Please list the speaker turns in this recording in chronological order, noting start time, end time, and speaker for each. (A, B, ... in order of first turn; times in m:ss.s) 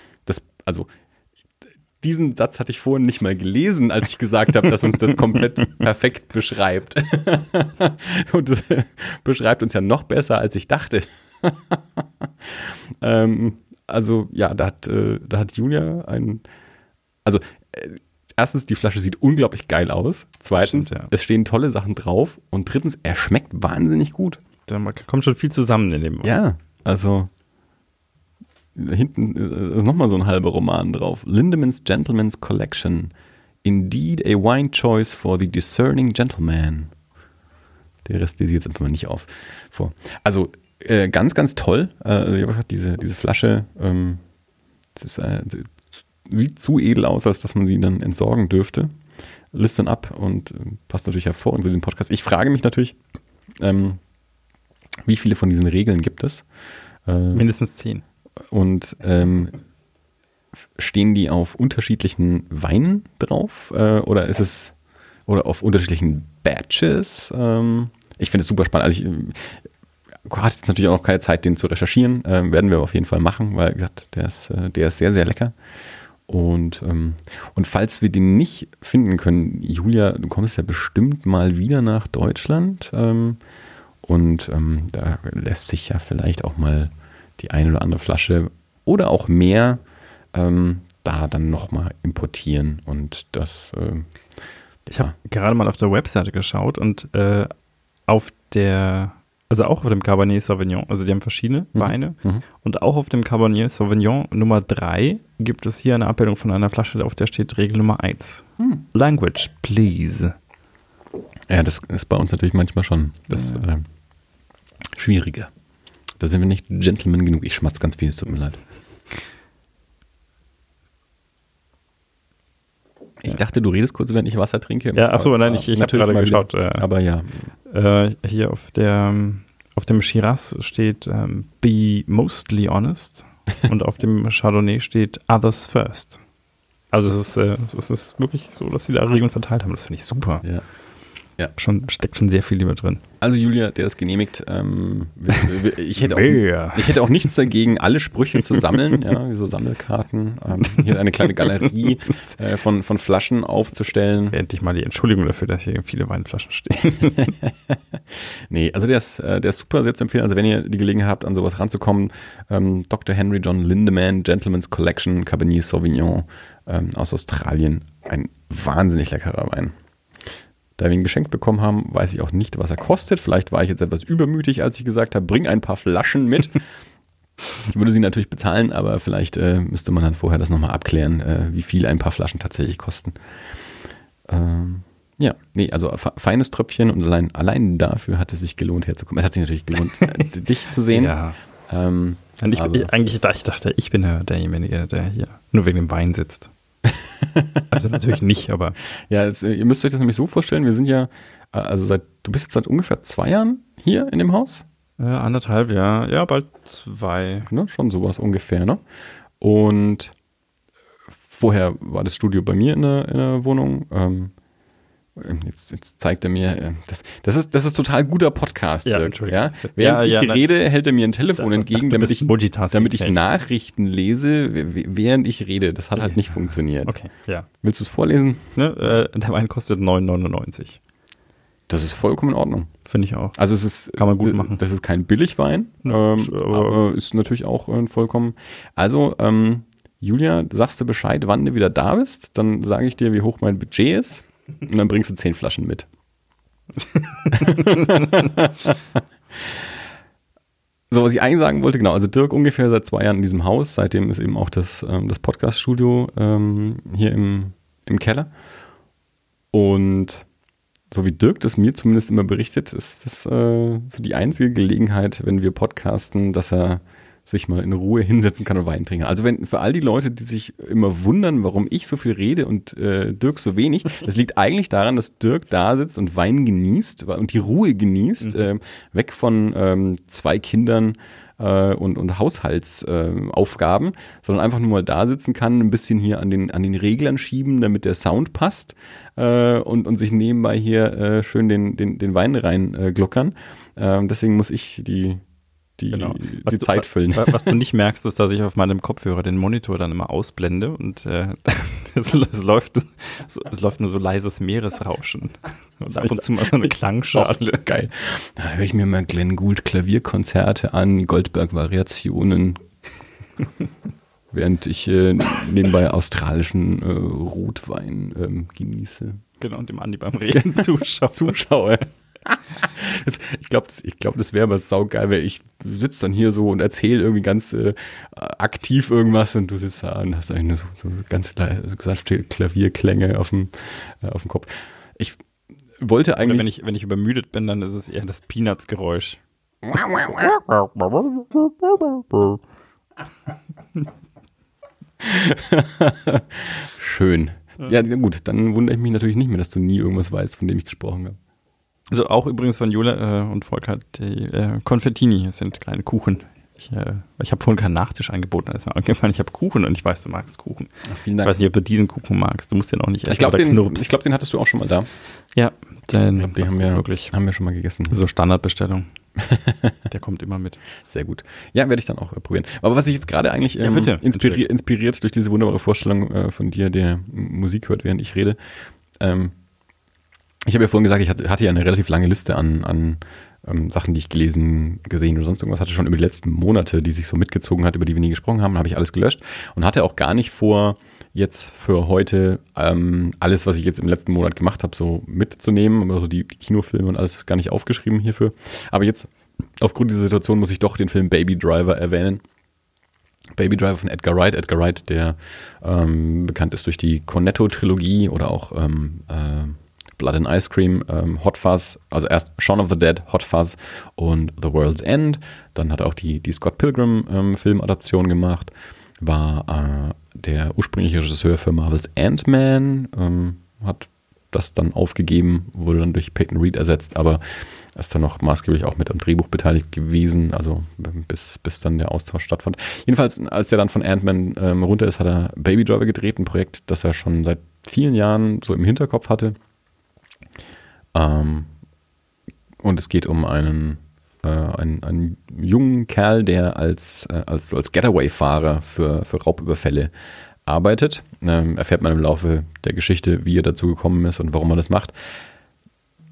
0:00.2-0:00.9 A
0:02.0-0:16.4 A
0:17.2-0:24.4 A
0:20.6-0:21.1 B
0:24.7-0:26.3 B
0:26.2-0:27.3 A
0:28.7-0:33.1 A
0:33.6-0:36.9 A
0:38.0-0:44.2 A
0:45.0-0:48.9 A
0:49.5-0:53.0 A
0:53.6-0:54.0 A
0:55.0-0:56.4 A
0:57.0-0:57.4 A
0:57.3-0:58.0 B
0:58.5-0:59.6 A
1:00.8-1:04.7 A
1:05.3-1:09.6 A
1:10.3-1:15.5 A
1:16.3-1:23.4 A
1:24.0-1:29.8 A
1:30.3-1:34.1 A
1:34.9-1:37.5 B
1:38.1-1:50.4 B
1:41.8-1:42.4 A
1:51.5-1:53.8 A
1:53.4-1:53.6 B
1:54.9-1:55.5 A
1:56.2-1:58.6 A
2:03.2-2:07.5 A
2:04.9-2:06.8 B
2:07.7-2:16.2 B
2:16.9-2:20.4 B
2:21.5-2:23.0 B
2:23.2-2:34.4 A
2:26.0-2:27.1 B
2:34.3-2:37.3 B
2:37.2-2:49.7 A
2:50.8-2:56.6 A
2:57.6-3:03.2 A
3:04.3-3:11.2 A
3:10.9-3:11.4 B
3:11.7-3:12.9 A
3:12.4-3:16.5 B
3:16.8-3:17.7 A
3:17.7-3:18.8 B
3:19.1-3:24.6 A
3:25.0-3:27.5 B
3:27.5-3:28.8 A
3:29.4-3:30.1 A
3:31.3-3:34.3 A
3:35.2-3:47.0 A
3:38.8-3:40.4 B
3:41.4-3:43.2 B
3:46.8-3:47.5 B
3:47.6-3:48.5 A
3:48.6-3:50.8 B
3:51.7-3:52.7 A
3:52.8-3:53.4 B
3:53.4-4:05.8 A
3:54.0-3:54.6 B
3:55.8-3:56.8 B
4:06.9-4:08.0 B
4:07.3-4:08.8 A
4:09.4-4:09.6 A
4:10.9-4:18.3 A
4:19.5-4:20.2 A
4:20.9-4:55.2 A
4:55.8-4:57.5 A
4:55.9-5:07.6 B
5:05.9-5:12.6 A
5:14.3-5:19.2 A
5:19.4-5:21.4 B
5:20.3-5:35.2 A
5:35.8-5:36.5 A
5:36.2-5:39.2 B
5:39.6-5:40.3 A
5:40.1-5:42.4 B
5:45.0-5:51.2 A
5:51.9-6:00.7 B
6:00.8-6:01.4 A
6:01.2-6:04.0 B
6:03.0-6:04.9 A
6:05.3-6:07.1 B
6:06.2-6:08.0 A
6:07.9-6:08.9 B
6:09.2-6:09.8 A
6:09.9-6:10.6 B
6:10.9-6:18.4 A
6:13.6-6:14.4 B
6:19.0-6:19.3 A
6:20.4-6:39.1 A
6:39.6-6:42.2 A
6:43.4-7:07.2 A
7:07.7-7:19.4 A
7:20.9-7:21.5 A
7:22.6-7:29.9 A
7:30.4-7:34.9 A